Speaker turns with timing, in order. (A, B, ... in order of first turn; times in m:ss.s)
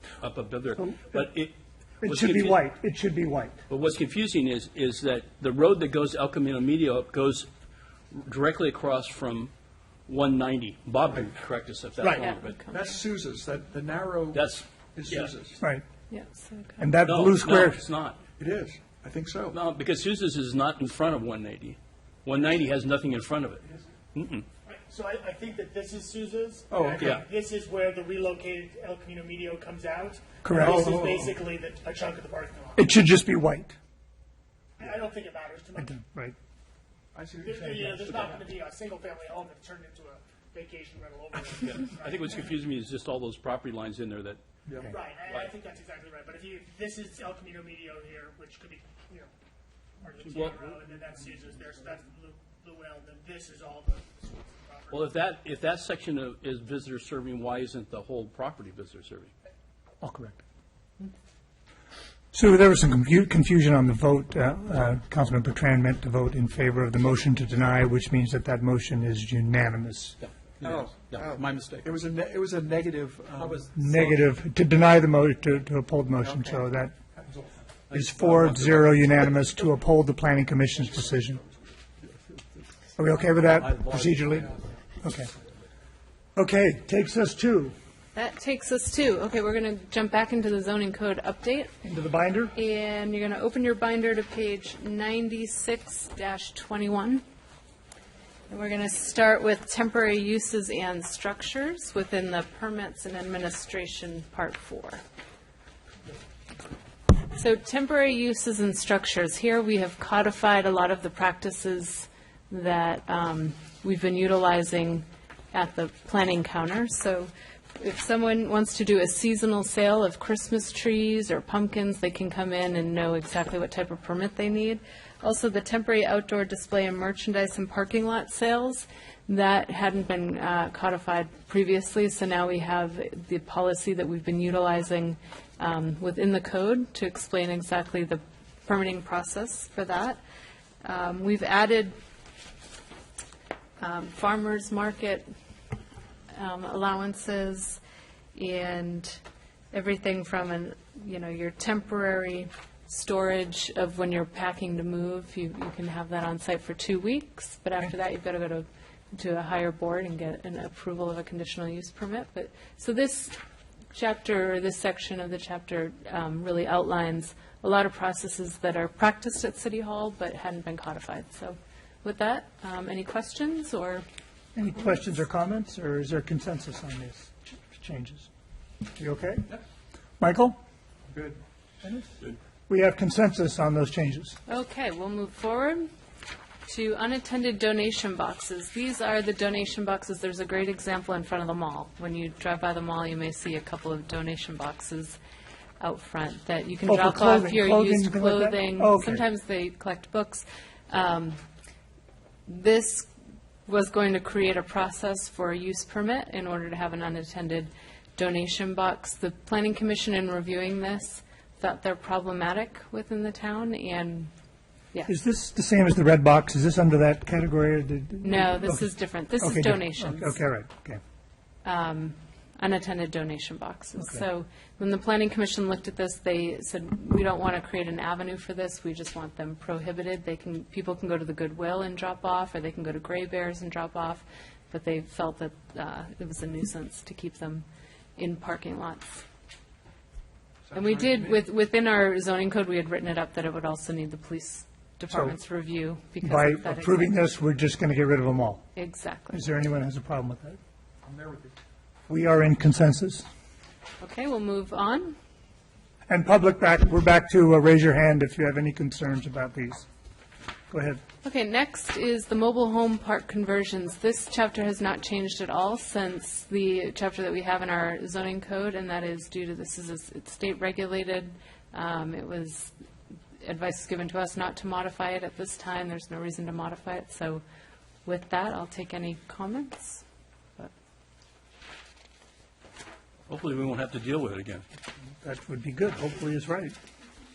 0:00.2-0:02.6 A
0:00.8-0:01.2 B
0:02.0-0:03.6 B
0:03.7-0:07.5 A
0:08.1-0:09.5 A
0:10.1-0:12.6 A
0:12.0-0:12.2 C
0:12.2-0:13.1 D
0:12.7-0:15.6 E
0:14.3-0:15.3 A
0:16.1-0:16.9 D
0:16.8-0:17.8 B
0:17.0-0:18.2 A
0:18.4-0:19.6 E
0:19.5-0:24.5 A
0:24.7-0:32.9 C
0:26.7-0:27.2 E
0:27.0-0:27.2 A
0:30.4-0:31.0 B
0:30.9-0:31.3 E
0:32.8-0:33.8 B
0:34.8-0:35.9 C
0:35.8-0:36.4 B
0:37.2-0:38.4 E
0:37.4-0:42.4 C
0:41.6-0:44.4 A
0:44.7-0:44.9 E
0:44.8-0:49.3 C
0:50.0-0:55.1 C
0:50.3-0:50.6 A
0:54.9-0:59.3 A
1:00.0-1:00.4 B
1:02.3-1:10.2 B
1:10.2-1:11.9 A
1:11.8-1:13.7 E
1:13.7-1:16.9 B
1:17.1-1:17.6 E
1:17.9-1:19.0 A
1:17.9-1:21.4 B
1:23.0-1:25.3 B
1:23.6-1:24.1 A
1:26.4-1:27.7 B
1:28.1-1:31.7 D
1:31.8-1:32.5 B
1:32.5-1:37.2 D
1:38.5-1:45.0 D
1:47.3-2:20.2 D
2:20.8-2:21.9 D
2:23.8-2:25.2 D
2:26.3-2:27.8 D
2:28.3-2:43.4 D
2:43.9-2:54.0 D
2:54.5-2:58.3 B
2:59.0-2:59.5 B
3:00.2-3:00.6 B
3:01.1-3:01.4 E
3:01.8-3:02.1 B
3:02.7-3:04.4 B
3:04.5-3:05.9 D
3:06.7-3:15.2 D
3:15.8-3:21.4 D
3:16.9-3:19.2 B
3:22.5-3:23.1 D
3:23.7-3:34.3 D
3:35.1-3:41.0 B
3:38.2-3:40.4 D
3:41.6-3:57.7 D
3:44.0-3:44.2 B
3:58.2-3:59.2 D
4:00.7-4:01.4 E
4:00.7-4:07.2 D
4:06.2-4:08.6 B
4:08.8-4:09.4 D
4:09.3-4:10.6 B
4:11.1-4:11.5 E
4:12.1-4:13.2 B
4:14.0-4:15.2 D
4:16.1-4:19.9 B
4:20.7-4:21.0 B
4:21.2-4:32.8 D
4:33.4-4:37.4 D
4:38.0-4:40.0 D
4:43.3-4:44.6 A
4:45.2-4:46.8 B